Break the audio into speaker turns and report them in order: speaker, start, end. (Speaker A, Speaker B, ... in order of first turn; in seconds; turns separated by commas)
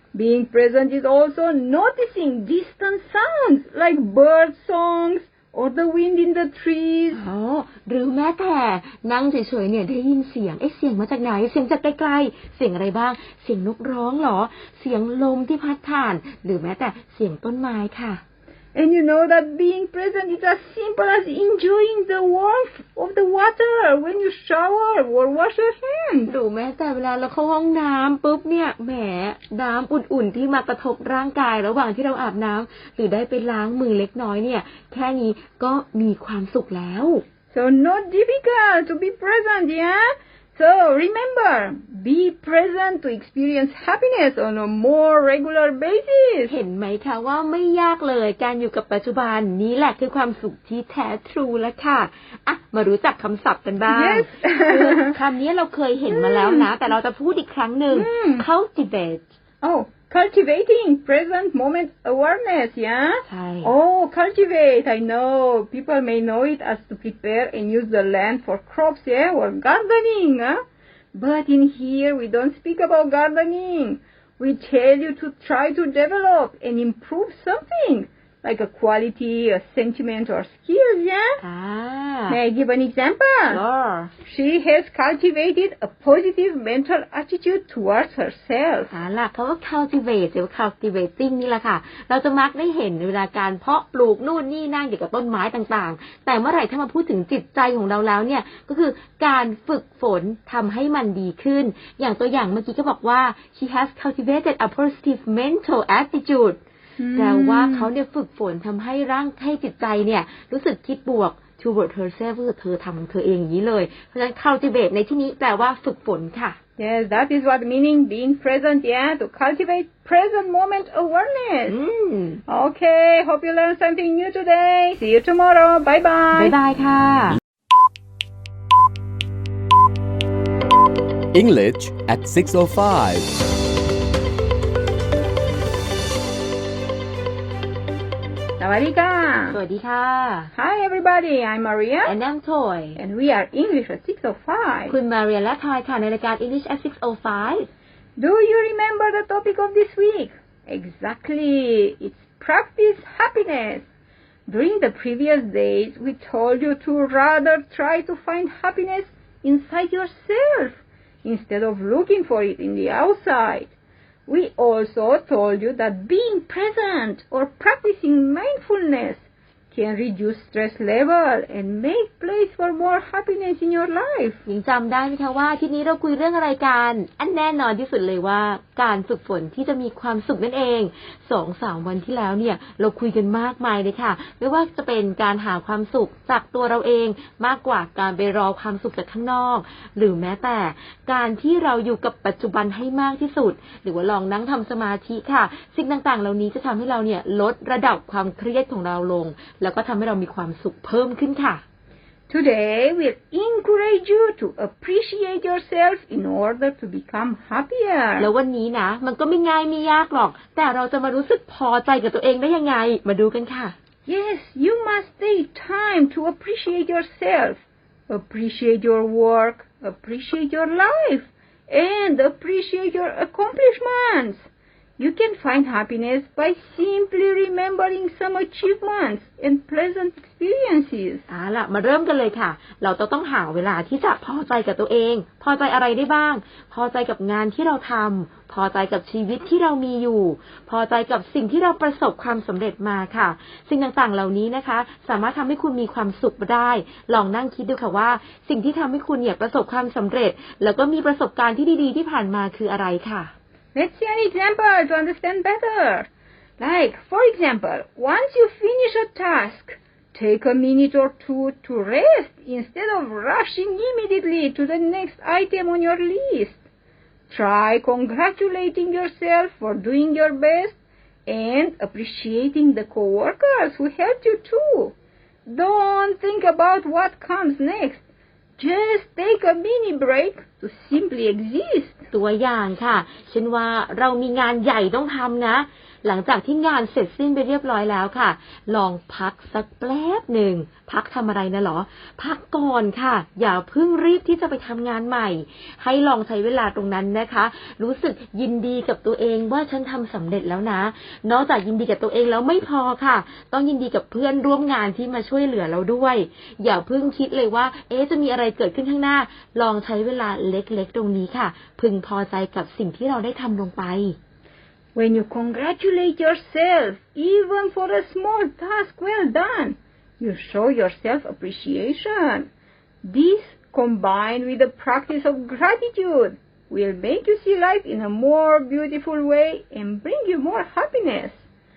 Speaker A: 0.1-7.2, Speaker B: 7.1-18.2, Speaker A: 18.7-26.3, Speaker B: 26.3-37.2, Speaker A: 37.5-46.5, Speaker B: 46.5-59.3, Speaker A: 53.9-55.1, Speaker A: 56.1-56.7, Speaker A: 57.9-58.5, Speaker A: 59.6-70.6, Speaker B: 63.3-63.7, Speaker A: 71.1-81.4, Speaker B: 81.4-82.4, Speaker A: 82.3-83.6, Speaker B: 83.5-84.1, Speaker A: 84.2-88.9, Speaker B: 88.9-106.6, Speaker A: 107.0-107.9, Speaker B: 107.1-116.6, Speaker A: 116.8-121.8, Speaker B: 121.7-122.4, Speaker A: 122.5-126.5, Speaker B: 126.3-127.4, Speaker C: 131.3-133.3, Speaker A: 138.6-139.6, Speaker B: 139.5-140.5, Speaker A: 140.5-142.1, Speaker B: 142.1-143.0, Speaker A: 142.9-144.9, Speaker B: 144.9-147.7, Speaker A: 148.2-153.8, Speaker A: 154.5-163.7, Speaker A: 164.3-174.4, Speaker B: 174.4-201.6, Speaker A: 202.3-208.3, Speaker B: 208.2-213.7, Speaker A: 214.1-231.2, Speaker B: 231.3-253.3, Speaker A: 253.7-256.1, Speaker A: 256.6-266.6, Speaker A: 267.3-274.9, Speaker A: 275.4-278.0, Speaker A: 278.6-281.9, Speaker B: 282.1-314.2, Speaker A: 314.9-322.5, Speaker A: 323.0-331.4